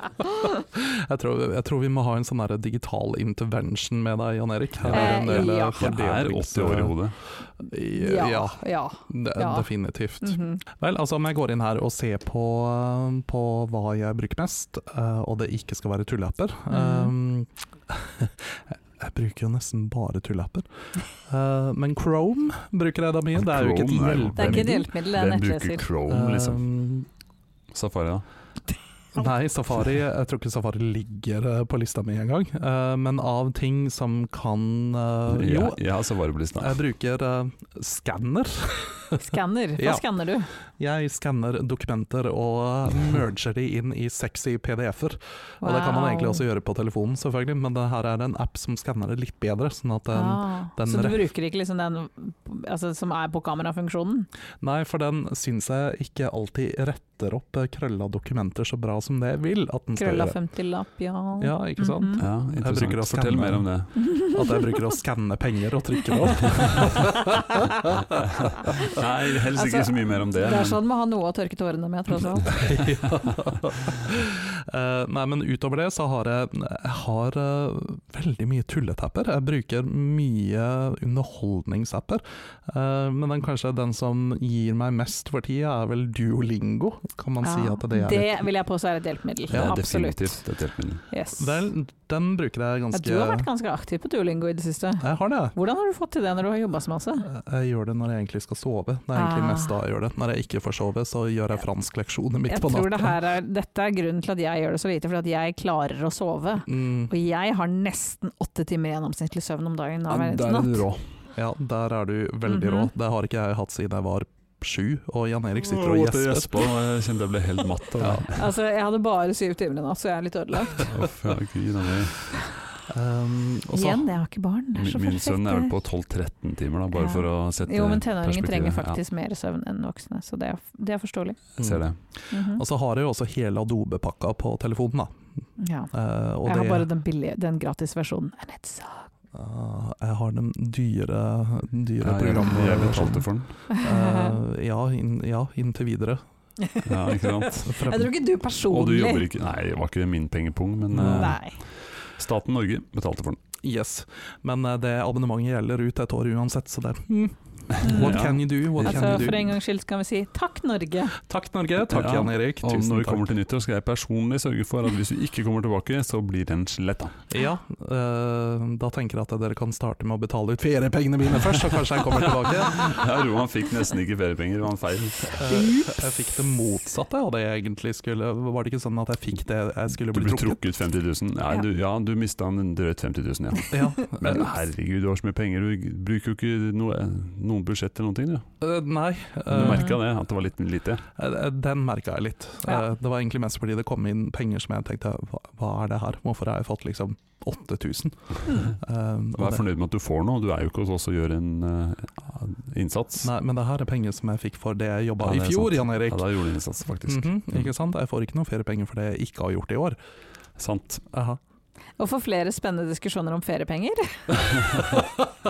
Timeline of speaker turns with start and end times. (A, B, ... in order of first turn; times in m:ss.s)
0:00.4-0:07.0 A
0:04.8-0:07.2 B
0:04.9-0:05.9 C
0:07.6-0:24.8 A
0:08.0-0:09.7 C
0:10.2-0:10.6 C
0:16.7-0:17.1 C
0:23.3-0:26.6 B
0:24.4-0:25.9 C
0:26.1-0:27.1 A
0:27.7-0:28.2 B
0:29.1-0:35.8 A
0:35.3-0:36.8 B
0:36.6-0:39.2 A
0:39.2-0:40.5 C
0:39.8-0:40.0 A
0:40.8-0:51.2 A
0:45.6-0:46.4 C
0:50.1-0:54.3 C
0:54.6-1:00.4 A
1:00.0-1:02.2 C
1:01.4-1:08.2 A
1:02.2-1:04.0 B
1:04.0-1:05.0 C
1:07.1-1:07.8 C
1:08.8-1:10.8 B
1:09.5-1:12.6 C
1:12.4-1:28.5 A
1:27.4-1:30.4 C
1:29.5-1:31.0 B
1:29.5-1:29.8 A
1:31.1-1:31.6 C
1:31.4-1:33.5 A
1:32.9-1:37.3 C
1:35.0-1:35.5 A
1:37.2-1:43.2 A
1:39.1-1:39.8 C
1:42.5-1:50.8 C
1:46.7-1:47.1 A
1:50.1-1:51.0 B
1:51.3-1:56.7 A
1:52.4-1:52.9 C
1:55.6-1:58.5 B
1:58.0-1:58.2 A
1:58.3-2:00.9 C
2:00.8-2:02.2 B
2:02.9-2:04.1 A
2:03.7-2:05.7 C
2:04.7-2:09.0 B
2:06.9-2:11.4 C
2:11.6-2:12.0 B
2:11.6-2:15.2 A
2:12.3-2:12.6 C
2:15.6-2:15.9 C
2:15.9-2:16.9 A
2:16.4-2:19.1 C
2:19.3-2:26.2 A
2:22.0-2:23.5 B
2:23.7-2:24.4 C
2:26.6-2:29.3 C
2:26.8-2:27.7 B
2:27.6-2:28.1 A
2:28.7-2:33.4 B
2:30.9-2:31.4 A
2:31.0-2:31.6 C
2:33.6-2:39.5 A
2:37.8-2:39.3 B
2:37.8-2:38.3 C
2:38.8-2:41.2 C
2:41.2-2:43.3 A
2:41.9-2:47.2 B
2:47.3-2:53.0 A
2:52.7-2:55.4 B
2:55.3-3:00.6 A
2:55.4-2:56.0 C
3:00.1-3:08.4 B
3:03.7-3:04.6 A
3:08.6-3:09.9 A
3:09.5-3:11.0 B
3:09.6-3:10.0 C
3:11.1-3:19.6 A
3:19.4-3:23.3 B
3:23.2-3:26.3 A
3:25.2-3:27.7 B
3:27.0-3:30.0 A
3:30.6-3:31.0 B
3:31.1-3:31.4 A
3:32.0-3:35.0 C
3:34.6-3:35.0 B